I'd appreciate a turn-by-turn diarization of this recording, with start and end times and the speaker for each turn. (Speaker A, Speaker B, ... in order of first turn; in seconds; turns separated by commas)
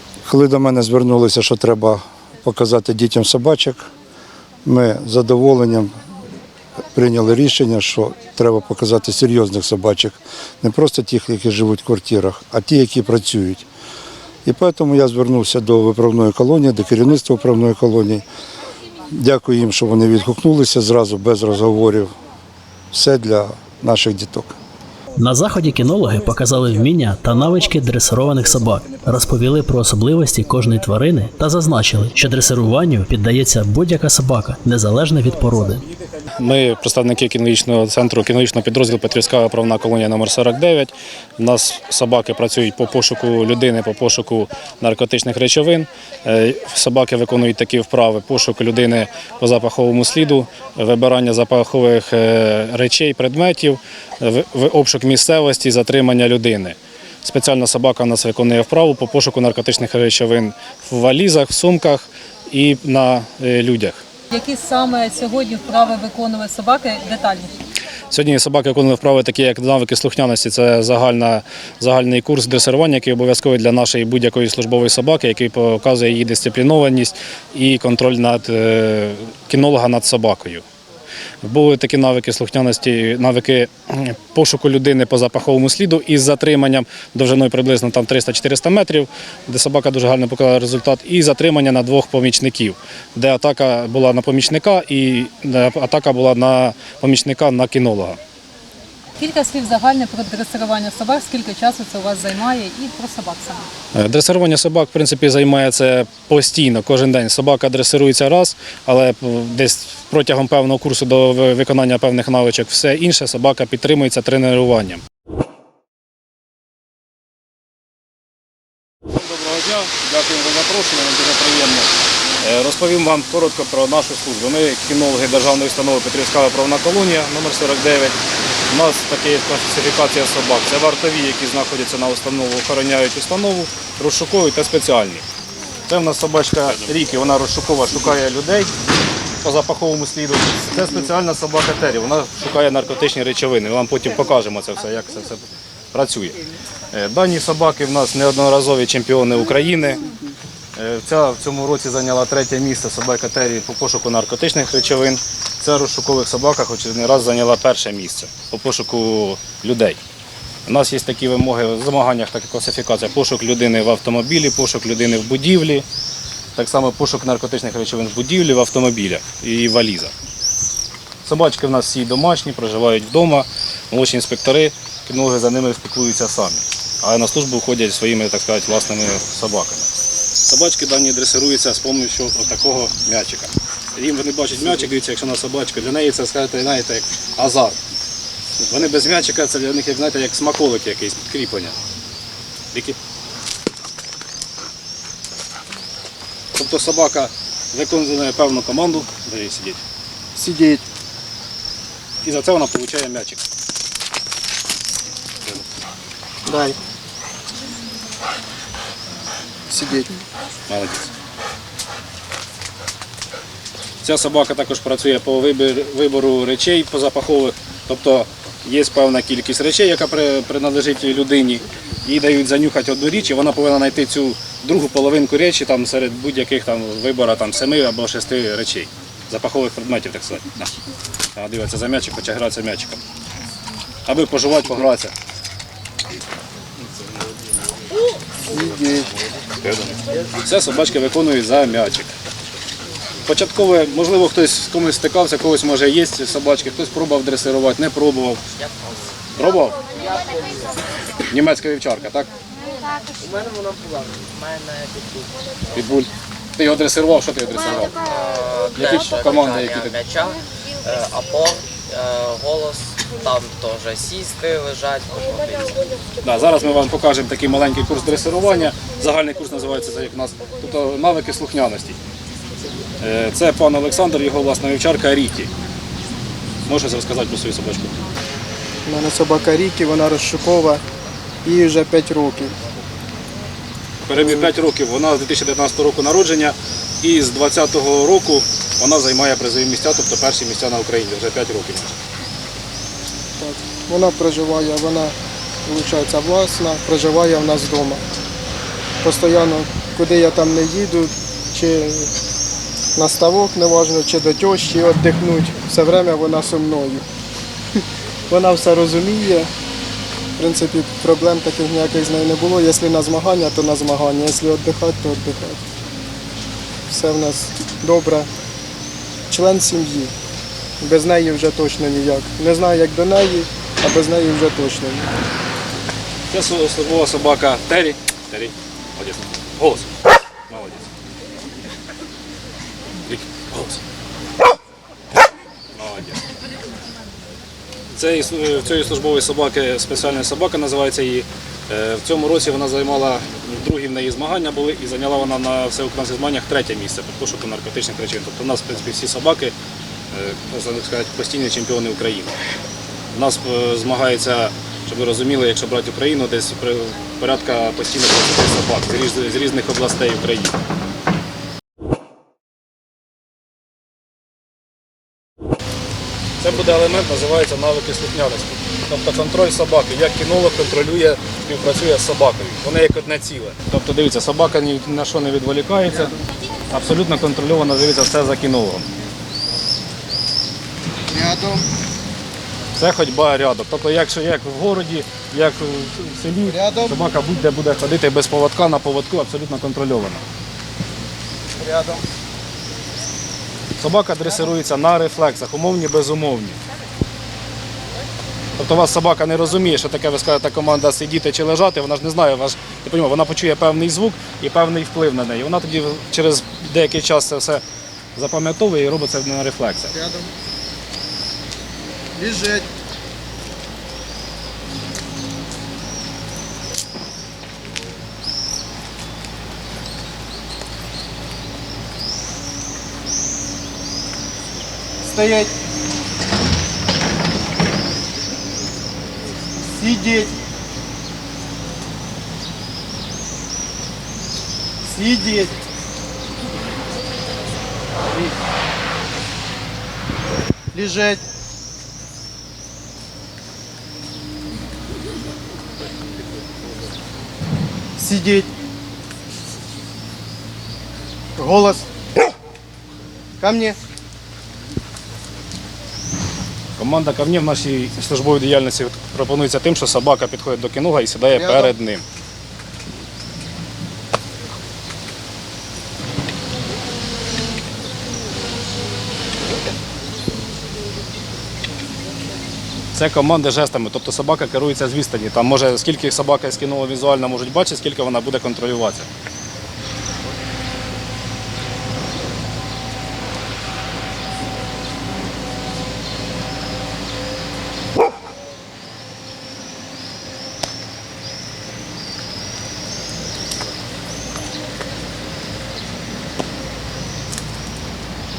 Speaker A: 0.2-3.9, Speaker A: 4.6-5.9, Speaker A: 6.9-13.7, Speaker A: 14.4-18.2, Speaker A: 19.1-22.1, Speaker A: 22.9-24.5, Speaker B: 25.2-35.8, Speaker C: 36.4-64.0, Speaker D: 64.3-67.5, Speaker C: 68.1-80.6, Speaker C: 81.4-98.2, Speaker D: 99.2-103.6, Speaker C: 103.9-115.0, Speaker C: 119.1-128.2, Speaker C: 128.7-135.2, Speaker C: 135.9-138.7, Speaker C: 139.4-146.4, Speaker C: 146.9-150.0, Speaker C: 150.8-160.0, Speaker C: 160.7-165.8, Speaker C: 166.6-170.1, Speaker C: 171.2-179.9, Speaker C: 180.4-187.8, Speaker C: 188.6-191.8, Speaker C: 192.7-193.0, Speaker C: 196.5-199.8, Speaker E: 200.3-200.8, Speaker C: 202.2-203.4, Speaker E: 206.4-206.8, Speaker E: 209.7-210.2, Speaker C: 210.7-211.1, Speaker C: 214.0-230.7, Speaker C: 231.3-233.0, Speaker C: 234.1-235.1, Speaker E: 238.5-239.1, Speaker C: 240.4-242.1, Speaker C: 243.2-248.4, Speaker C: 249.4-249.8, Speaker C: 251.3-252.3, Speaker F: 254.3-255.2, Speaker C: 255.7-258.0, Speaker F: 258.1-265.8, Speaker C: 258.7-260.0, Speaker C: 266.2-272.0, Speaker C: 273.0-275.5, Speaker C: 276.6-278.0, Speaker E: 278.8-280.8, Speaker E: 281.4-282.5, Speaker C: 284.0-292.0, Speaker E: 284.1-284.5, Speaker E: 293.4-298.0, Speaker E: 299.0-302.1, Speaker E: 302.9-307.1, Speaker E: 308.3-309.5, Speaker E: 310.4-315.6, Speaker E: 316.9-318.3, Speaker E: 319.3-320.1, Speaker E: 320.8-325.1, Speaker C: 326.3-329.9, Speaker C: 330.5-330.9, Speaker C: 333.1-333.8, Speaker C: 335.7-336.2, Speaker C: 337.9-349.5, Speaker C: 350.1-352.3, Speaker C: 353.1-360.5, Speaker C: 366.4-376.1, Speaker C: 376.7-378.9, Speaker E: 381.1-381.6, Speaker C: 382.7-390.2, Speaker E: 386.5-386.9, Speaker E: 391.5-392.0, Speaker C: 393.8-396.6, Speaker C: 398.6-407.6, Speaker C: 408.1-409.9, Speaker E: 409.9-410.3, Speaker E: 412.1-412.7, Speaker E: 425.0-425.5, Speaker E: 429.6-430.3, Speaker E: 434.8-435.5, Speaker E: 440.7-441.2, Speaker E: 447.9-448.5, Speaker E: 451.4-451.9, Speaker E: 453.4-453.8, Speaker C: 456.8-462.0, Speaker E: 461.3-461.7, Speaker C: 472.9-479.1